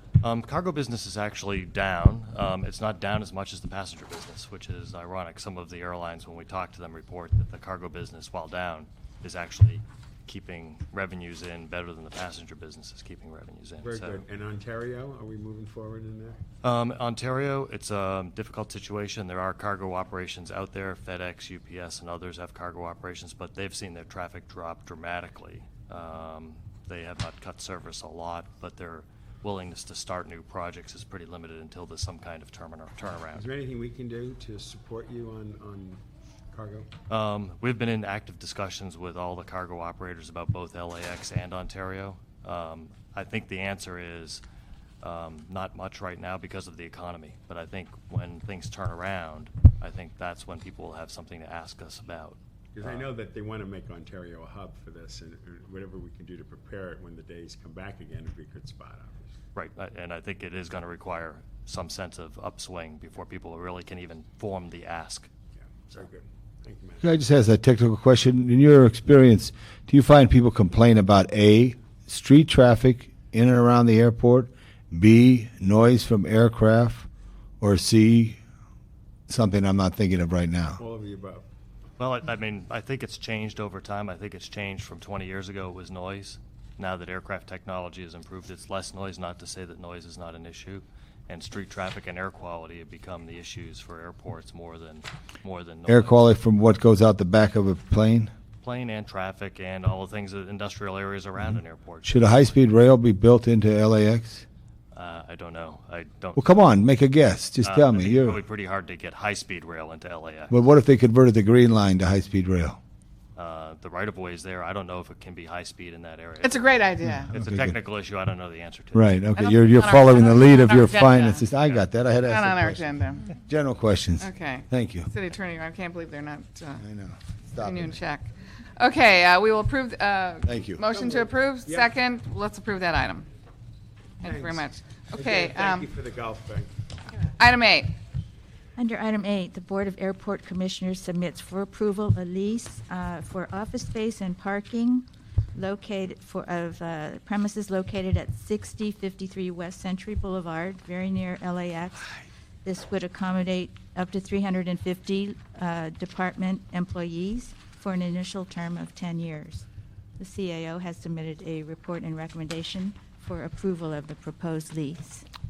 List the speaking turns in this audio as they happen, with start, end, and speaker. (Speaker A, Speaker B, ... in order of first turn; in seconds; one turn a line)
Speaker A: 0.2-14.2
Speaker B: 13.8-16.4
Speaker A: 16.6-33.5
Speaker B: 33.3-36.9
Speaker A: 37.1-44.4
Speaker A: 45.0-53.1
Speaker B: 52.8-59.3
Speaker A: 59.5-65.3
Speaker B: 65.6-67.1
Speaker C: 67.0-77.1
Speaker C: 77.6-78.4
Speaker C: 79.3-80.8
Speaker B: 80.8-81.5
Speaker A: 82.0-96.2
Speaker C: 95.9-98.3
Speaker A: 98.6-102.6
Speaker C: 102.0-104.5
Speaker A: 104.9-106.5
Speaker C: 106.4-108.4
Speaker A: 107.6-110.5
Speaker C: 110.5-112.8
Speaker A: 113.4-116.7
Speaker D: 116.4-117.3
Speaker C: 117.1-117.8
Speaker A: 117.3-119.2
Speaker C: 118.9-125.1
Speaker D: 119.4-121.5
Speaker A: 121.6-121.9
Speaker D: 122.2-123.3
Speaker D: 124.2-126.8
Speaker C: 126.8-127.9
Speaker D: 127.6-133.3
Speaker C: 130.4-130.8
Speaker B: 130.9-131.9
Speaker D: 134.2-135.9
Speaker B: 134.2-136.7
Speaker D: 137.4-137.9
Speaker E: 138.8-152.1
Speaker E: 152.7-159.7
Speaker E: 160.2-165.2